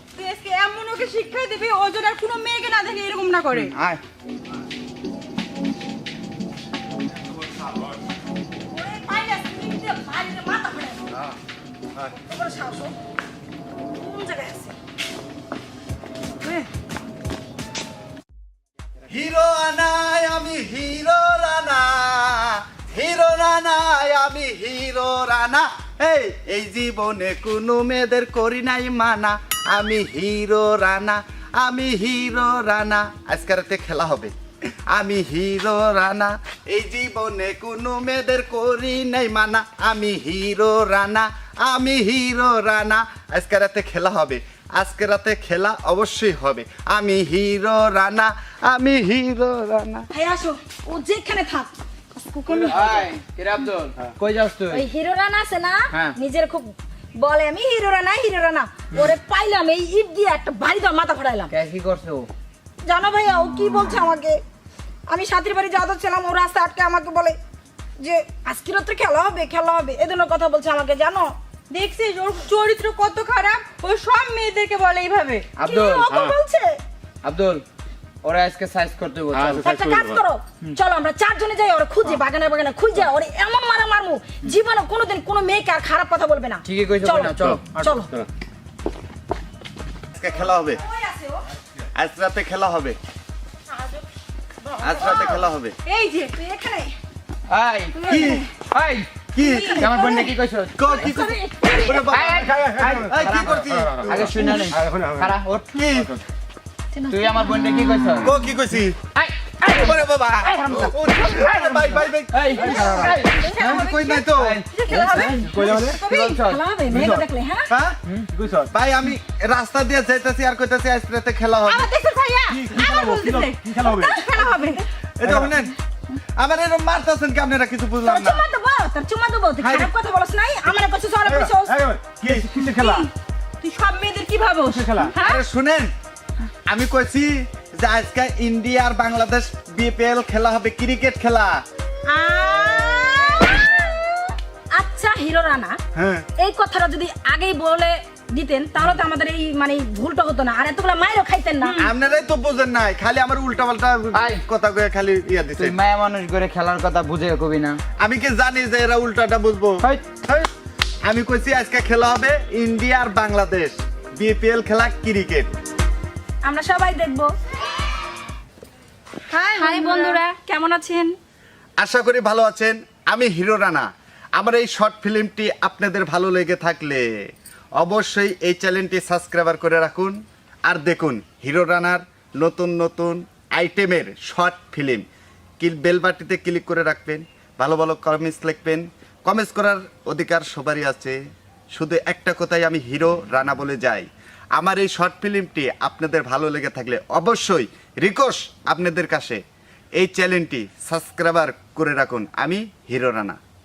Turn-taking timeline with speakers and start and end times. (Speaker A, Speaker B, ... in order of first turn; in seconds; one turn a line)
Speaker A: 0.1-3.7
Speaker B: 3.5-4.0
Speaker C: 8.7-11.0
Speaker B: 11.1-11.4
Speaker C: 12.1-12.9
Speaker C: 13.9-14.8
Speaker B: 19.1-34.3
Speaker B: 34.9-50.1
Speaker C: 50.1-53.1
Speaker D: 52.5-54.8
Speaker C: 54.7-61.5
Speaker D: 55.9-56.2
Speaker D: 61.5-62.3
Speaker C: 62.8-64.4
Speaker C: 65.1-67.4
Speaker C: 68.0-71.3
Speaker A: 71.7-75.5
Speaker D: 75.6-76.1
Speaker C: 75.6-76.8
Speaker E: 76.1-76.3
Speaker D: 77.2-77.6
Speaker D: 78.2-79.7
Speaker E: 79.3-80.2
Speaker C: 79.6-88.1
Speaker D: 86.7-87.7
Speaker E: 87.4-88.3
Speaker B: 90.1-90.8
Speaker C: 90.7-91.4
Speaker B: 91.9-93.0
Speaker B: 94.8-95.8
Speaker C: 95.0-95.4
Speaker A: 95.0-95.3
Speaker A: 95.9-96.3
Speaker C: 96.3-96.9
Speaker D: 97.5-98.1
Speaker C: 98.0-98.5
Speaker A: 98.1-98.3
Speaker B: 98.1-98.4
Speaker D: 98.7-100.8
Speaker B: 99.3-100.1
Speaker C: 99.4-102.2
Speaker A: 99.9-100.3
Speaker B: 100.8-102.5
Speaker D: 102.1-105.8
Speaker E: 102.4-105.3
Speaker B: 103.0-104.5
Speaker B: 105.7-106.2
Speaker C: 106.9-108.0
Speaker D: 107.1-108.3
Speaker B: 108.2-109.0
Speaker D: 109.2-109.7
Speaker C: 109.6-111.0
Speaker B: 109.7-114.6
Speaker D: 111.3-113.4
Speaker E: 112.6-113.0
Speaker C: 112.9-113.9
Speaker A: 113.1-115.8
Speaker D: 114.3-116.6
Speaker C: 114.8-117.7
Speaker E: 114.9-116.0
Speaker E: 116.9-117.2
Speaker B: 117.7-118.0
Speaker E: 118.3-118.7
Speaker B: 118.7-121.9
Speaker A: 121.7-124.8
Speaker E: 122.5-124.2
Speaker B: 125.2-125.7
Speaker E: 125.2-125.5
Speaker B: 126.4-128.4
Speaker C: 128.0-131.8
Speaker B: 129.6-129.9
Speaker E: 131.3-133.1
Speaker B: 132.2-132.5
Speaker A: 132.7-133.1
Speaker A: 133.6-135.4
Speaker E: 134.7-135.1
Speaker B: 135.2-135.9
Speaker B: 136.7-141.6
Speaker A: 142.1-144.0
Speaker C: 144.7-145.8
Speaker B: 145.9-146.3
Speaker C: 146.4-151.8
Speaker A: 151.6-151.9
Speaker B: 151.8-155.8
Speaker D: 154.1-154.4
Speaker D: 155.6-157.8
Speaker B: 158.0-160.5
Speaker B: 161.1-165.6
Speaker C: 166.4-167.3
Speaker A: 169.3-170.2
Speaker C: 169.6-171.1
Speaker B: 171.8-185.1
Speaker B: 185.6-191.2
Speaker B: 191.7-199.4
Speaker B: 200.0-203.4